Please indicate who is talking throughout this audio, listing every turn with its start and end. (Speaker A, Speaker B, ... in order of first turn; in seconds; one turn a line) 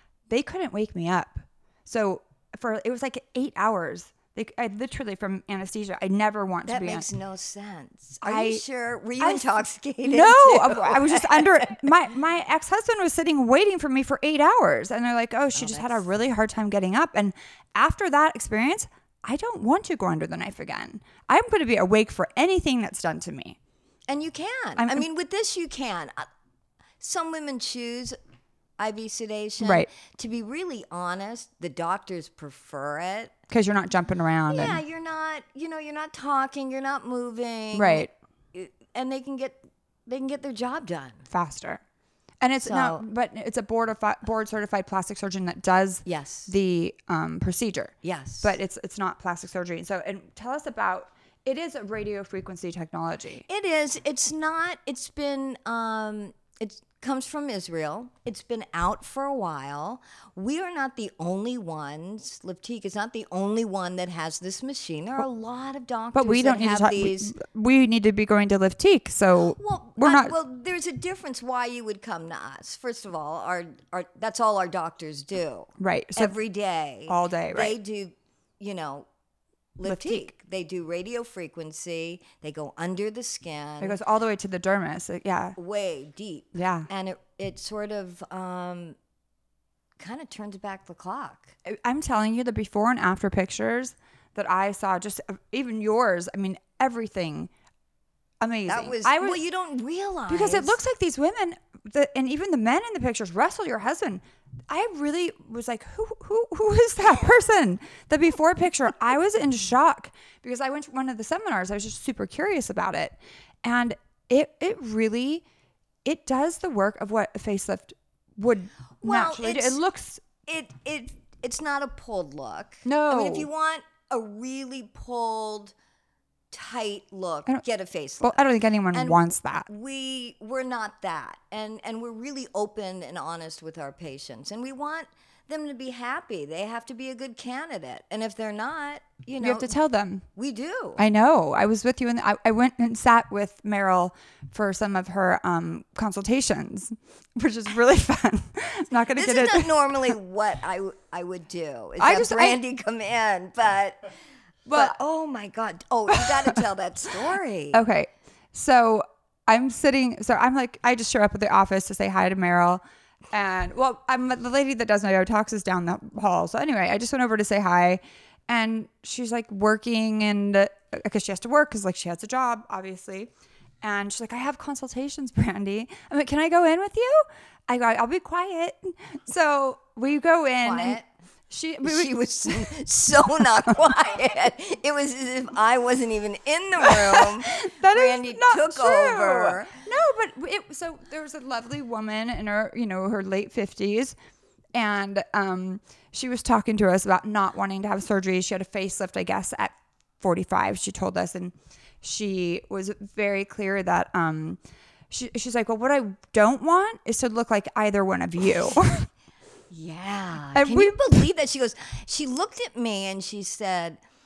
Speaker A: 0.3-7.1
Speaker B: 6.7-11.8
Speaker A: 8.2-8.6
Speaker A: 9.2-23.6
Speaker B: 15.5-16.0
Speaker B: 24.1-26.3
Speaker A: 24.8-25.1
Speaker B: 27.0-28.2
Speaker B: 28.8-33.3
Speaker A: 29.6-29.9
Speaker A: 33.5-34.8
Speaker B: 34.5-41.2
Speaker A: 37.7-38.1
Speaker A: 41.3-41.8
Speaker A: 42.4-53.4
Speaker B: 42.6-43.0
Speaker B: 46.0-46.5
Speaker B: 48.0-48.5
Speaker B: 53.5-67.3
Speaker A: 66.1-70.3
Speaker B: 69.5-79.0
Speaker A: 75.8-76.3
Speaker A: 77.1-77.8
Speaker B: 79.8-84.0
Speaker A: 79.8-80.3
Speaker A: 83.8-85.6
Speaker B: 85.6-89.0
Speaker A: 86.5-86.9
Speaker B: 90.0-91.5
Speaker A: 91.7-97.5
Speaker A: 98.4-99.4
Speaker B: 98.7-100.8
Speaker A: 100.3-115.4
Speaker A: 116.0-120.2
Speaker B: 119.0-119.8
Speaker B: 120.5-125.7
Speaker A: 122.8-123.5
Speaker B: 126.5-128.4
Speaker A: 128.2-129.7
Speaker B: 128.9-139.7
Speaker A: 139.4-140.2
Speaker B: 140.3-141.0
Speaker A: 141.0-150.1
Speaker B: 149.1-154.1
Speaker A: 152.0-152.6
Speaker A: 154.7-154.9
Speaker B: 154.7-157.8
Speaker A: 157.7-173.3
Speaker A: 173.8-182.7
Speaker B: 180.6-181.1
Speaker B: 181.8-189.7
Speaker A: 186.9-194.1
Speaker A: 194.7-204.6
Speaker A: 205.1-209.1
Speaker B: 209.7-214.0
Speaker A: 210.5-211.2